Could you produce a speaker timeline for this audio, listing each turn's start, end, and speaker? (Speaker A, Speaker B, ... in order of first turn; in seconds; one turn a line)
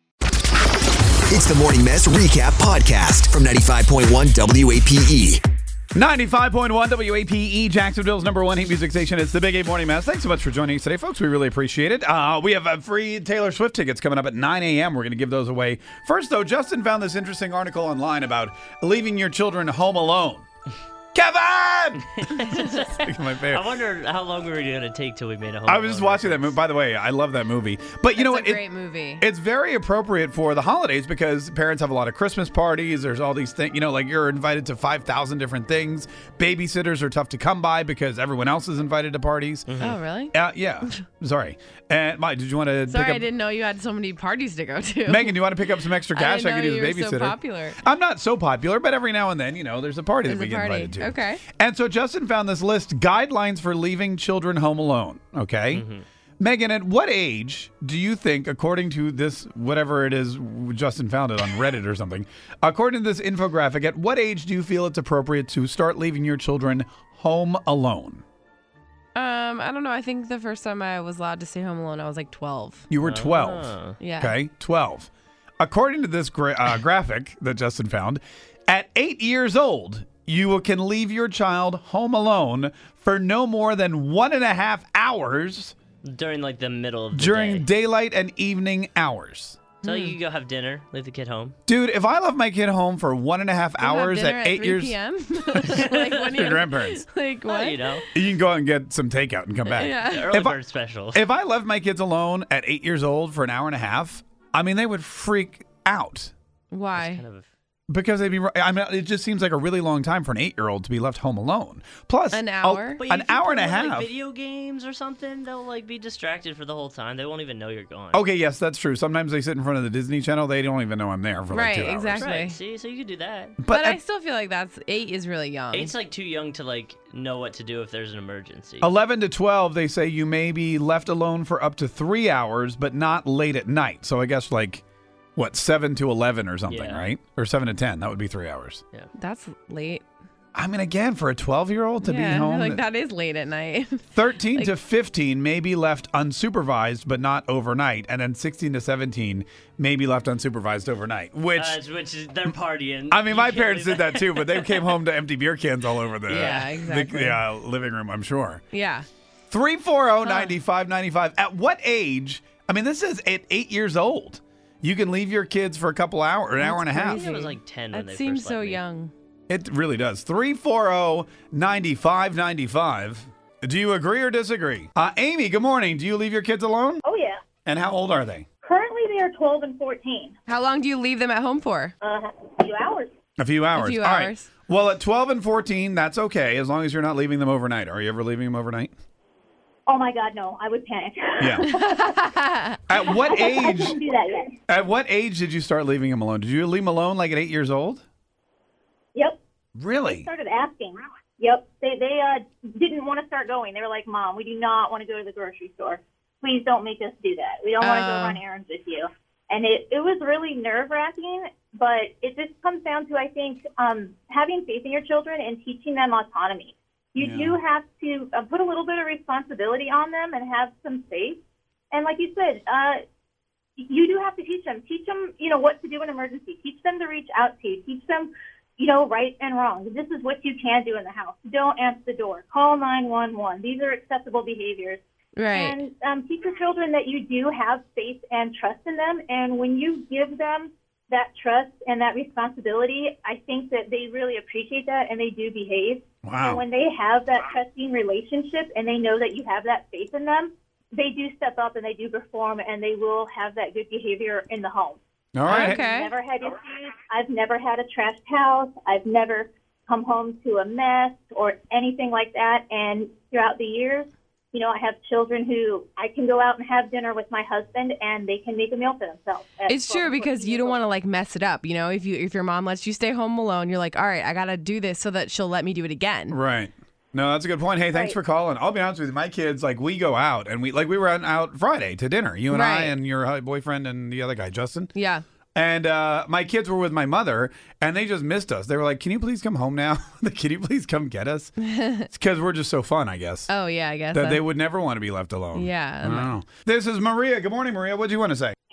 Speaker A: 1.3-5.4
Speaker B: 5.9-20.4
Speaker B: 21.1-22.1
Speaker C: 22.1-26.6
Speaker B: 23.0-23.6
Speaker B: 25.7-43.3
Speaker D: 28.1-29.2
Speaker C: 39.7-40.0
Speaker D: 39.8-40.4
Speaker D: 42.9-45.4
Speaker B: 45.1-55.9
Speaker D: 46.1-47.8
Speaker D: 50.3-51.4
Speaker C: 55.7-56.0
Speaker B: 56.4-68.2
Speaker D: 69.2-72.8
Speaker B: 72.9-75.1
Speaker C: 73.0-74.0
Speaker D: 74.0-74.3
Speaker B: 75.6-85.7
Speaker C: 86.0-87.7
Speaker B: 87.1-89.6
Speaker C: 89.8-91.5
Speaker D: 89.8-90.2
Speaker B: 91.7-95.0
Speaker D: 93.8-98.0
Speaker B: 95.5-97.0
Speaker C: 95.7-96.6
Speaker C: 97.5-98.0
Speaker B: 98.1-106.3
Speaker C: 99.7-101.2
Speaker D: 99.8-100.3
Speaker D: 106.7-107.2
Speaker C: 106.9-107.5
Speaker B: 107.9-114.1
Speaker D: 112.3-113.0
Speaker C: 113.0-118.2
Speaker B: 118.1-122.3
Speaker D: 121.5-122.6
Speaker C: 122.2-123.6
Speaker B: 123.6-124.0
Speaker D: 123.7-125.9
Speaker C: 125.7-128.9
Speaker B: 128.8-134.8
Speaker B: 135.4-138.8
Speaker C: 136.7-137.1
Speaker D: 139.2-140.0
Speaker B: 140.6-142.8
Speaker D: 142.0-144.7
Speaker B: 144.1-151.8
Speaker C: 151.6-155.0
Speaker B: 153.1-158.6
Speaker C: 156.3-156.6
Speaker D: 156.3-157.4
Speaker D: 158.7-159.1
Speaker B: 159.5-167.3
Speaker D: 160.2-160.5
Speaker D: 166.6-169.1
Speaker C: 167.1-168.8
Speaker B: 169.5-177.0
Speaker E: 177.0-177.4
Speaker B: 177.7-178.5
Speaker E: 178.6-180.3
Speaker D: 180.5-181.9
Speaker E: 182.0-183.1
Speaker B: 183.4-188.9
Speaker D: 183.8-184.5
Speaker E: 189.9-192.2
Speaker B: 191.4-191.7
Speaker D: 192.1-192.5
Speaker B: 192.9-194.0
Speaker E: 193.1-194.6
Speaker B: 194.7-198.0
Speaker B: 199.8-200.3
Speaker E: 200.1-221.4
Speaker D: 207.8-208.4
Speaker B: 217.2-217.6
Speaker E: 221.9-223.0
Speaker E: 223.8-270.9
Speaker D: 235.4-235.8
Speaker B: 246.2-246.6
Speaker B: 255.3-255.8
Speaker D: 255.5-256.1
Speaker D: 269.7-276.4
Speaker B: 276.3-284.9
Speaker D: 282.5-283.0
Speaker D: 284.9-285.2
Speaker B: 285.6-293.5
Speaker D: 293.5-294.4
Speaker B: 294.1-298.6
Speaker D: 295.6-296.3